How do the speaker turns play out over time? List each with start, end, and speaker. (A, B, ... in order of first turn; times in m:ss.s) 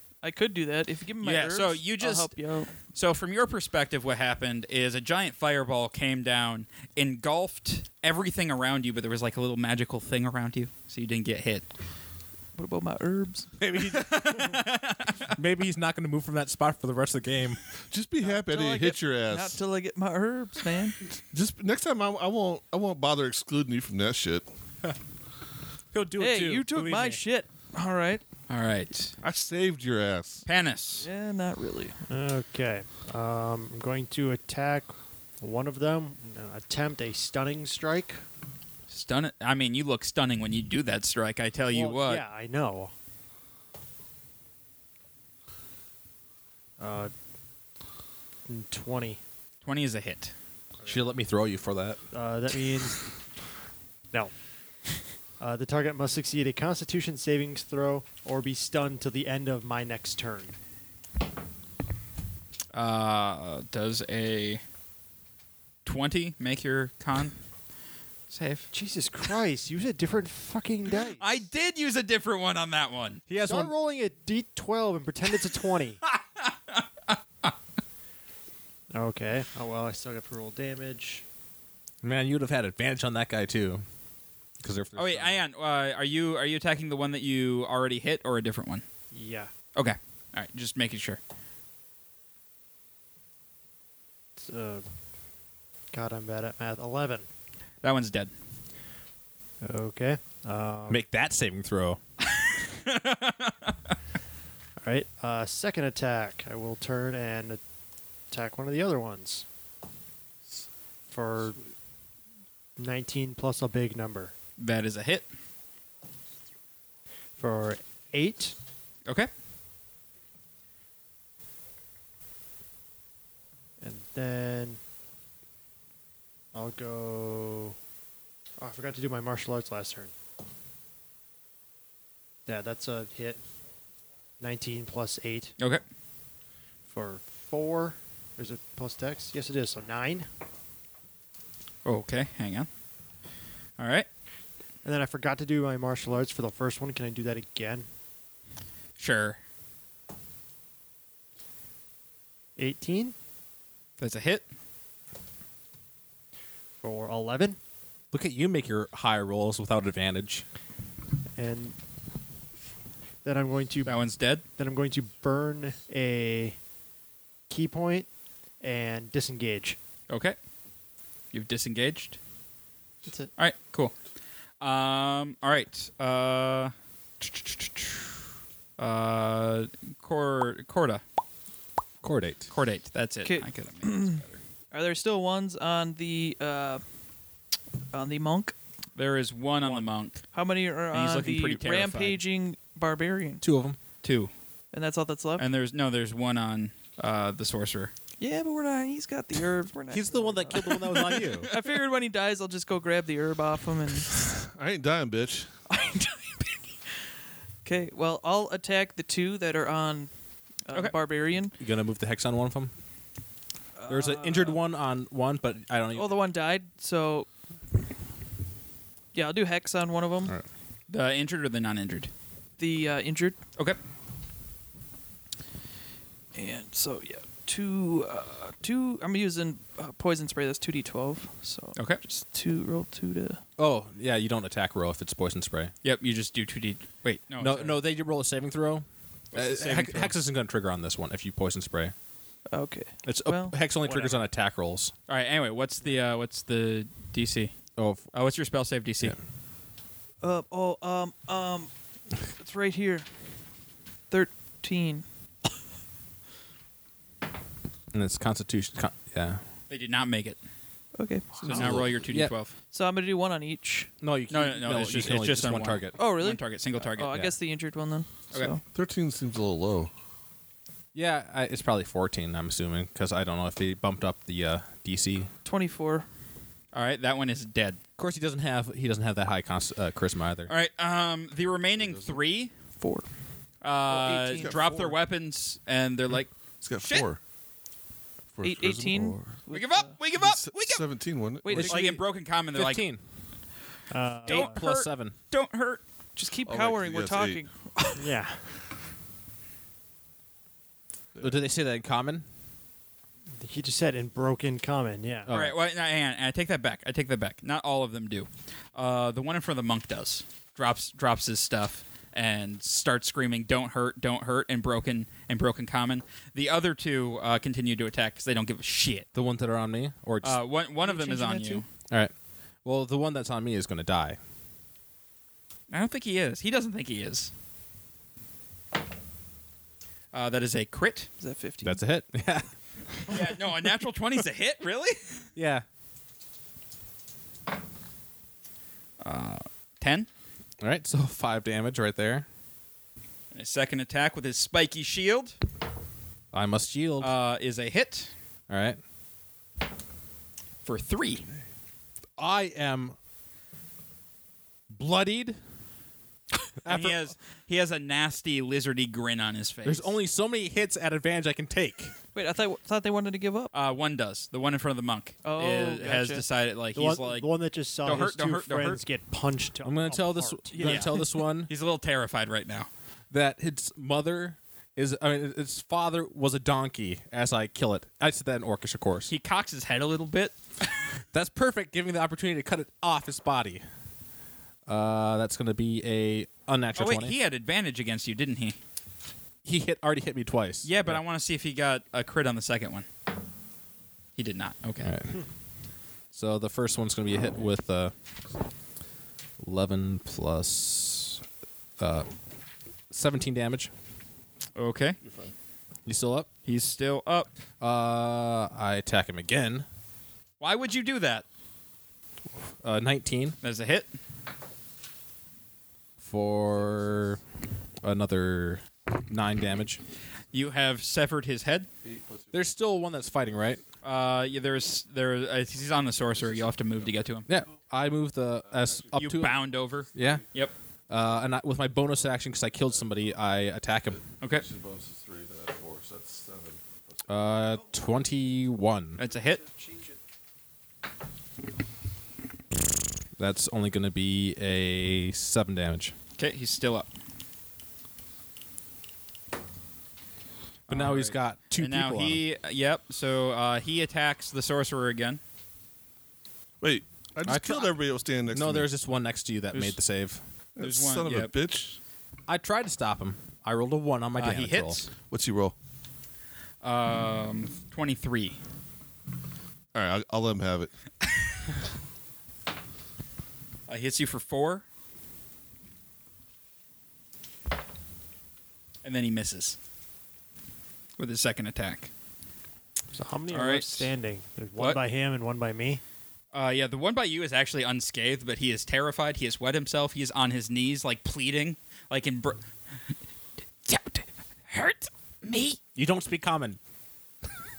0:00.2-0:02.7 A
0:01.2-0:02.3 B
0:02.9-0:11.7 B
0:12.6-0:13.5 A
0:13.6-0:14.7 C
0:13.9-0:15.3 B
0:15.3-0:17.6 C
0:17.9-0:19.6 D
0:18.2-0:21.0 A
0:21.3-0:24.5 D
0:25.9-0:27.2 C
0:26.2-0:28.2 A
0:28.5-0:29.2 B
0:29.2-0:30.5 D
0:30.5-0:31.1 B
0:31.0-0:32.0 A
0:32.1-0:38.2 E
0:38.9-0:42.2 B
0:41.7-0:42.9 E
0:46.8-0:47.1 E
0:48.5-0:49.2 E
0:49.6-0:50.3 B
0:50.8-0:52.0 C
0:52.1-0:53.1 E
0:55.4-1:00.6 E
1:02.7-1:04.6 B
1:05.8-1:07.4 B
1:08.3-1:08.7 B
1:08.7-1:11.3 E
1:11.2-1:13.2 B
1:13.3-1:13.7 C
1:13.4-1:16.0 E
1:16.1-1:17.5 B
1:18.9-1:21.2 E
1:22.0-1:23.8 C
1:24.6-1:25.4 C
1:25.0-1:28.8 B
1:29.1-1:29.5 E
1:29.8-1:31.2 B
1:34.4-1:34.8 E
1:35.9-1:37.3 E
1:37.8-1:38.3 B
1:39.6-1:41.0 E
1:40.9-1:42.0 C
1:42.7-1:43.7 B
1:44.8-1:47.6 E
1:48.3-1:49.5 E
1:51.1-1:51.6 E
1:52.8-1:54.3 E
1:54.6-1:55.3 B
1:57.4-1:58.6 E
2:03.8-2:04.8 E
2:06.5-2:07.8 E
2:08.6-2:10.1 E
2:12.5-2:13.4 E
2:14.4-2:15.5 E
2:16.9-2:20.3 E
2:21.8-2:22.7 B
2:23.8-2:24.1 B
2:24.8-2:27.9 E
2:29.0-2:29.4 B
2:32.6-2:33.1 E
2:34.0-2:34.5 B
2:36.8-2:37.6 E
2:38.1-2:40.4 C
2:41.4-2:41.8 E
2:43.2-2:44.0 E
2:43.8-2:44.4 B
2:44.6-2:46.6 E
2:47.5-2:48.1 E
2:48.6-2:49.8 E
2:50.1-2:50.4 B
2:51.3-2:52.2 B
2:53.4-2:53.9 B
2:54.6-2:58.0 B
2:58.8-3:01.0 B
3:02.0-3:02.4 C
3:02.5-3:04.3 B
3:03.2-3:06.8 A
3:07.9-3:08.6 A
3:09.0-3:10.2 B
3:09.6-3:13.4 A
3:10.9-3:12.2 B
3:13.4-3:13.8 C
3:14.0-3:14.3 B
3:14.7-3:15.4 A
3:15.4-3:17.9 B
3:18.2-3:24.2 A
3:19.9-3:21.5 C
3:24.5-3:25.5 D
3:25.7-3:26.6 A
3:27.6-3:30.1 A
3:30.7-3:31.5 A
3:31.6-3:32.7 C
3:33.8-3:34.6 A
3:33.9-3:36.1 C
3:35.9-3:37.3 A
3:39.1-3:40.3 A
3:40.9-3:42.1 B
3:42.6-3:43.4 A
3:46.4-3:53.4 A
3:53.6-3:55.7 C
3:55.8-3:57.8 B
3:57.4-4:01.9 C
3:59.3-4:00.2 B
4:02.5-4:04.0 A
4:03.0-4:04.9 C
4:05.1-4:07.5 B
4:07.8-4:08.1 C
4:08.1-4:09.2 B
4:10.2-4:11.7 A
4:12.2-4:13.1 A
4:14.1-4:15.0 A
4:17.9-4:19.4 C
4:19.7-4:20.4 B
4:21.0-4:21.8 A
4:21.4-4:22.5 B
4:21.5-4:21.8 D
4:21.5-4:22.4 C
4:22.7-4:23.9 A
4:24.0-4:26.0 C
4:24.3-4:27.1 B
4:26.0-4:28.6 A
4:28.7-4:29.9 D
4:31.0-4:35.3 C
4:35.4-4:36.1 A
4:36.7-4:37.8 B
4:38.0-4:40.5 C
4:40.5-4:42.5 B
4:41.8-4:42.2 D
4:42.8-4:43.1 A
4:43.6-4:47.1 B
4:43.9-4:44.8 A
4:44.4-4:45.0 D
4:46.6-4:47.2 D
4:48.3-4:49.3 D
4:48.4-4:49.9 A
4:49.5-4:50.8 B
4:50.1-4:51.7 D
4:51.4-4:51.8 A
4:51.5-4:52.0 C
4:51.5-4:52.8 B
4:52.5-4:53.0 C
4:53.9-4:54.6 E
4:54.2-4:55.1 C
4:54.3-4:55.8 B
4:56.2-4:58.1 A
4:56.4-4:57.4 D
4:58.0-4:58.5 E
5:01.2-5:02.2 C
5:03.4-5:05.3 E
5:05.3-5:05.6 C
5:05.3-5:19.1 B
5:19.1-5:20.4 C
5:20.2-5:21.6 B
5:20.8-5:21.6 A
5:22.6-5:24.2 C
5:25.7-5:27.3 B
5:30.1-5:31.1 B
5:31.2-5:31.8 A
5:31.6-5:33.1 C
5:33.1-5:35.2 B
5:35.4-5:35.6 C
5:39.0-5:40.1 B
5:40.6-5:42.3 C
5:43.3-5:45.4 B
5:46.3-5:47.1 C
5:47.0-5:48.1 B
5:48.5-5:48.8 C
5:50.6-5:51.2 B
5:52.2-5:53.0 C
5:54.7-5:55.4 C
5:56.6-5:57.1 C
5:56.7-5:59.9 B
5:59.6-6:01.9 C
6:02.1-6:03.5 A
6:03.5-6:07.3 B
6:05.2-6:06.2 A
6:06.8-6:10.7 E
6:07.8-6:08.8 B
6:09.6-6:11.5 C
6:10.5-6:11.1 A
6:10.6-6:12.7 B
6:13.1-6:19.1 C
6:19.1-6:20.4 B
6:21.1-6:23.6 C
6:24.7-6:27.2 C
6:26.8-6:28.6 B
6:29.4-6:31.0 C
6:30.6-6:32.9 B
6:34.2-6:34.9 B
6:34.8-6:35.1 C
6:36.1-6:37.9 C
6:39.4-6:41.2 C
6:41.8-6:42.1 C
6:42.9-6:43.7 C
6:44.6-6:45.0 B
6:45.0-6:45.3 D
6:45.9-6:46.3 C
6:46.5-6:47.3 B
6:47.6-6:49.7 C
6:50.4-6:51.2 B
6:52.6-6:53.4 C
6:53.4-6:53.9 B
6:56.0-6:57.2 C
6:57.8-6:59.8 C
7:00.3-7:01.7 B
7:01.8-7:02.3 D
7:02.3-7:03.6 C
7:03.8-7:07.3 B
7:07.3-7:10.2 C
7:08.9-7:10.5 B
7:10.9-7:14.0 C
7:14.3-7:17.0 D
7:17.1-7:19.0 C
7:19.0-7:19.4 B
7:19.4-7:19.9 A
7:23.2-7:25.9 C
7:26.2-7:26.9 B
7:30.7-7:35.2 B
7:30.7-7:32.2 C
7:36.6-7:38.7 D
7:37.2-7:37.8 C
7:38.3-7:40.2 C
7:40.6-7:41.8 D
7:40.6-7:41.3 B
7:42.3-7:44.8 C
7:44.2-7:44.9 B
7:45.1-7:45.6 D
7:46.6-7:48.4 B
7:49.7-7:50.7 D
7:53.7-7:54.6 B
7:58.8-7:59.6 B
8:01.0-8:01.9 B
8:02.9-8:05.8 E
8:03.3-8:03.9 B
8:06.3-8:12.4 B
8:13.6-8:15.6 B
8:15.8-8:16.6 C